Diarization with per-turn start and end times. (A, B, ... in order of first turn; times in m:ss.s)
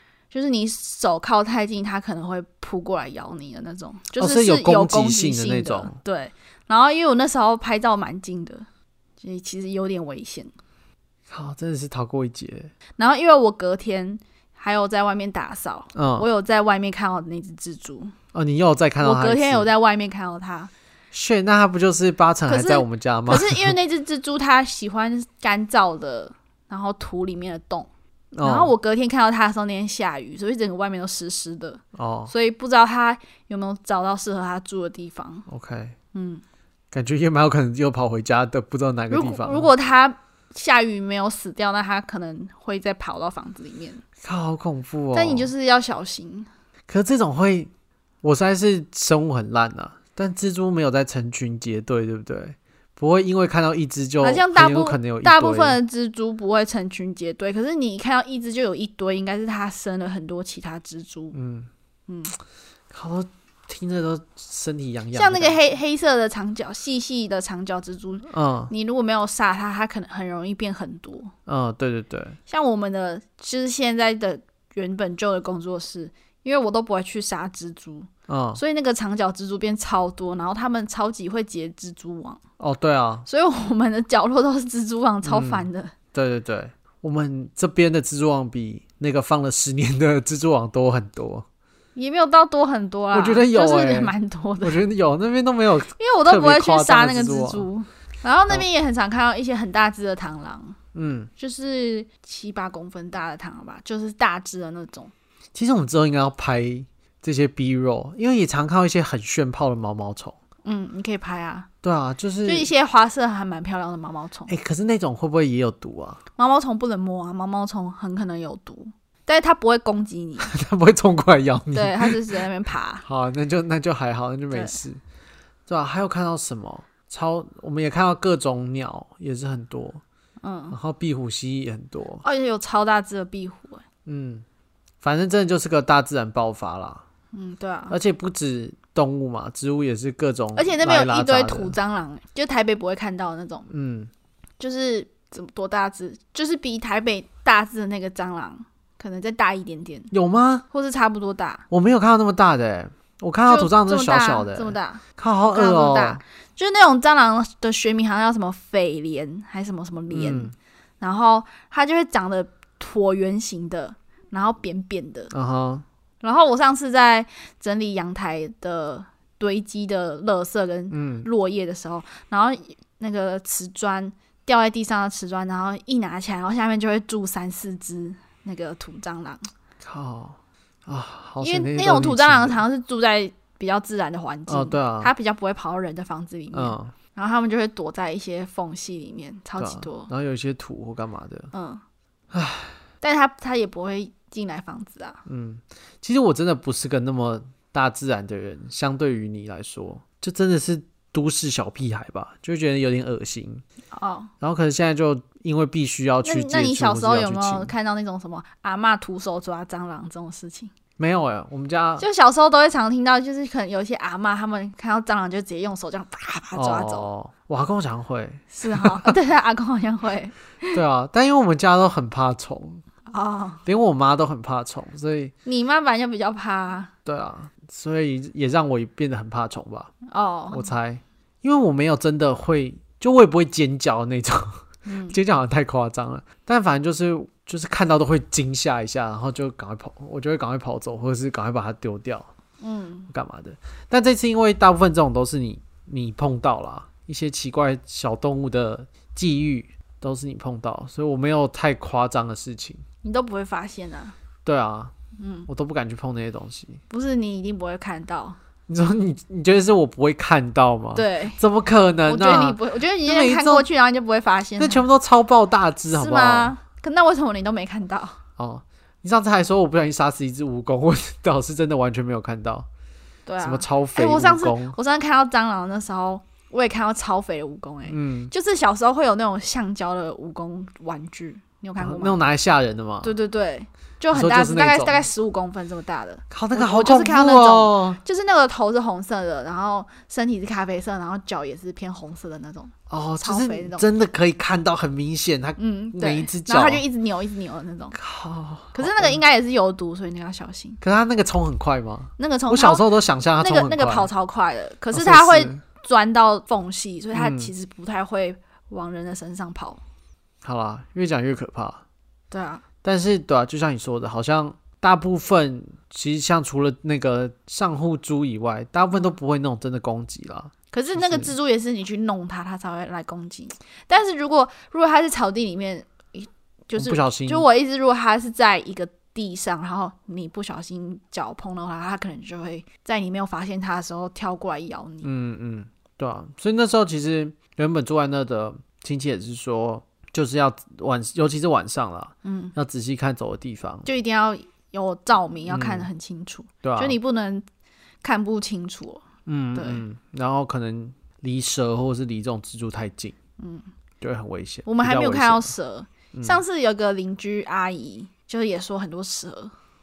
0:00.3-0:08.7 A
0:04.2-0:06.0 B
0:09.2-0:10.5 A
0:11.3-0:12.7 B
0:13.0-0:18.1 A
0:16.0-0:16.3 B
0:18.3-0:19.7 B
0:19.0-0:20.7 A
0:21.1-0:23.8 B
0:22.5-0:27.9 A
0:28.3-0:28.7 B
0:28.4-0:35.5 A
0:32.0-0:32.3 B
0:35.5-0:36.0 B
0:36.1-0:36.4 A
0:36.9-0:39.7 B
0:39.1-0:44.0 A
0:44.2-0:45.5 B
0:45.1-0:46.5 A
0:46.9-0:47.7 B
0:48.2-0:55.8 B
0:54.2-1:01.4 A
1:01.3-1:01.7 B
1:02.1-1:02.3 A
1:02.9-1:05.6 B
1:05.1-1:11.3 A
1:08.3-1:08.7 B
1:11.5-1:12.4 B
1:12.5-1:22.4 A
1:18.3-1:18.6 B
1:22.6-1:23.3 B
1:23.3-1:25.9 A
1:25.2-1:31.5 B
1:32.0-1:34.8 A
1:33.1-1:37.7 B
1:36.0-1:40.8 A
1:40.9-1:41.3 B
1:41.4-1:45.1 A
1:45.6-1:50.4 B
1:50.6-1:51.7 A
1:51.8-1:52.7 B
1:52.4-1:54.5 A
1:54.5-1:56.2 B
1:56.4-2:00.5 A
2:00.4-2:02.2 B
2:01.7-2:03.0 A
2:03.0-2:05.0 B
2:04.5-2:04.8 A
2:05.7-2:10.0 B
2:10.4-2:10.8 A
2:10.7-2:12.2 B
2:12.2-2:13.8 A
2:14.1-2:14.4 B
2:15.0-2:17.0 B
2:17.3-2:18.0 A
2:17.9-2:21.8 B
2:20.6-2:23.7 A
2:23.7-2:24.1 B
2:24.6-2:30.1 A
2:30.1-2:30.6 B
2:30.7-2:31.7 A
2:31.7-2:36.2 B
2:33.5-2:45.3 A
2:40.1-2:40.5 B
2:45.3-2:45.8 B
2:46.2-2:59.4 A
2:50.9-2:51.3 B
2:59.8-3:02.6 B
3:01.4-3:10.1 A
3:04.5-3:05.1 B
3:06.5-3:06.9 B
3:09.6-3:11.5 B
3:11.5-3:11.8 A
3:12.3-3:12.8 B
3:13.0-3:15.2 A
3:15.3-3:23.6 B
3:23.9-3:24.3 A
3:24.4-3:27.7 B
3:26.2-3:30.7 A
3:31.0-3:32.1 B
3:32.0-3:37.1 A
3:36.5-3:39.2 B
3:38.5-3:40.8 A
3:40.7-3:42.8 B
3:43.1-3:43.6 A
3:43.6-3:45.3 B
3:45.4-3:46.9 A
3:47.0-3:49.9 B
3:50.1-3:50.7 A
3:50.5-4:02.3 B
3:54.9-3:55.2 A
4:02.6-4:03.1 A
4:03.1-4:12.8 B
4:13.0-4:14.2 A
4:14.4-4:14.9 B
4:15.2-4:15.5 A
4:15.5-4:16.8 B
4:16.9-4:18.4 A
4:18.7-4:23.7 B
4:21.0-4:21.4 A
4:22.1-4:24.9 A
4:24.6-4:26.6 B
4:25.9-4:28.2 A
4:28.4-4:32.7 B
4:33.3-4:42.2 A
4:33.4-4:34.8 B
4:37.9-4:38.3 B
4:41.8-4:43.1 B
4:43.0-4:53.8 A
4:44.1-4:45.0 B
4:46.3-4:48.0 B
4:52.9-4:56.8 B
4:55.6-4:58.0 A
4:57.9-4:59.2 B
4:58.8-5:00.8 A
5:00.8-5:04.1 B
5:02.2-5:02.8 A
5:03.4-5:09.8 A
5:04.9-5:05.6 B
5:07.2-5:07.5 B
5:10.4-5:11.8 B
5:12.3-5:12.6 A
5:12.8-5:21.3 B
5:20.7-5:35.1 A
5:26.8-5:27.5 B
5:35.0-5:43.9 B
5:42.2-5:42.6 A
5:43.9-5:47.4 A
5:45.5-5:45.9 B
5:46.6-5:47.0 B
5:48.0-5:49.8 A
5:49.3-5:53.2 B
5:53.4-5:53.7 A
5:54.0-5:55.5 B
5:54.6-5:59.5 A
5:56.1-5:56.4 B